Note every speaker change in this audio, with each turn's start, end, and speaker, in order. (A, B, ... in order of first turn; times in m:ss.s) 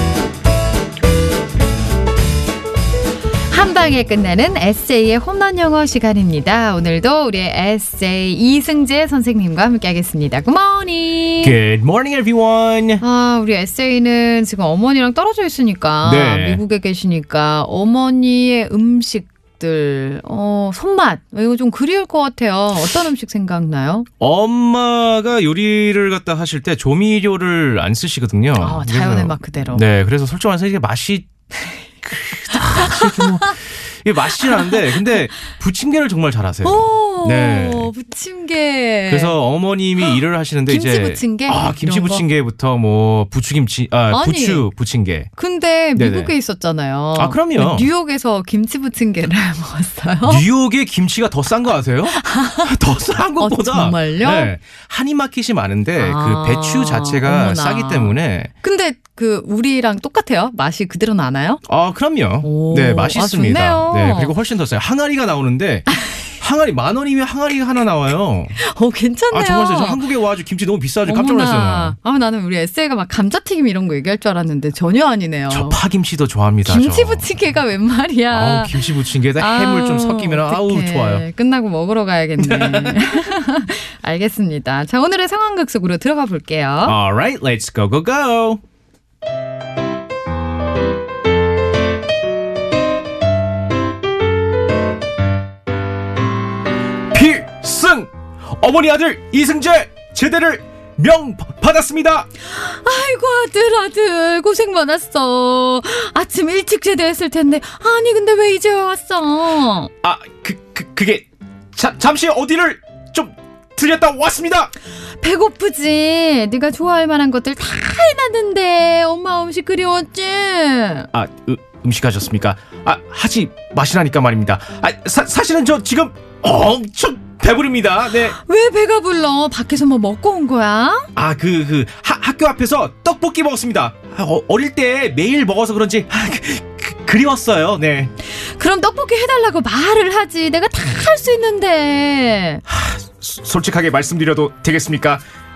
0:03.5-0:11.6 A
0:11.4-0:13.0 B
0:13.0-0:24.1 A
0:16.0-0:16.6 B
0:24.2-0:31.3 B
0:28.6-0:29.8 A
0:32.0-0:37.9 B
0:32.5-0:33.6 A
0:34.4-0:35.2 A
0:36.6-0:39.4 A
0:39.1-0:45.3 B
0:40.0-0:42.2 A
0:44.1-0:44.6 A
0:45.4-0:50.4 A
0:46.0-0:46.3 B
0:47.2-0:47.9 B
0:50.2-0:58.5 B
0:52.1-0:52.8 A
0:53.4-0:54.5 A
0:56.0-1:01.6 A
1:01.6-1:08.6 B
1:02.4-1:04.3 A
1:05.9-1:06.2 A
1:08.6-1:10.0 A
1:09.3-1:12.0 B
1:11.0-1:15.8 A
1:15.5-1:17.2 B
1:16.6-1:27.0 A
1:18.3-1:21.2 B
1:22.4-1:23.1 B
1:26.8-1:28.6 B
1:37.1-1:42.3 B
1:42.4-1:49.9 A
1:50.0-1:54.7 B
1:55.2-2:01.1 A
2:01.1-2:08.4 B
2:08.3-2:11.1 A
2:11.2-2:18.1 B
2:18.2-2:22.6 A
2:22.7-2:25.2 B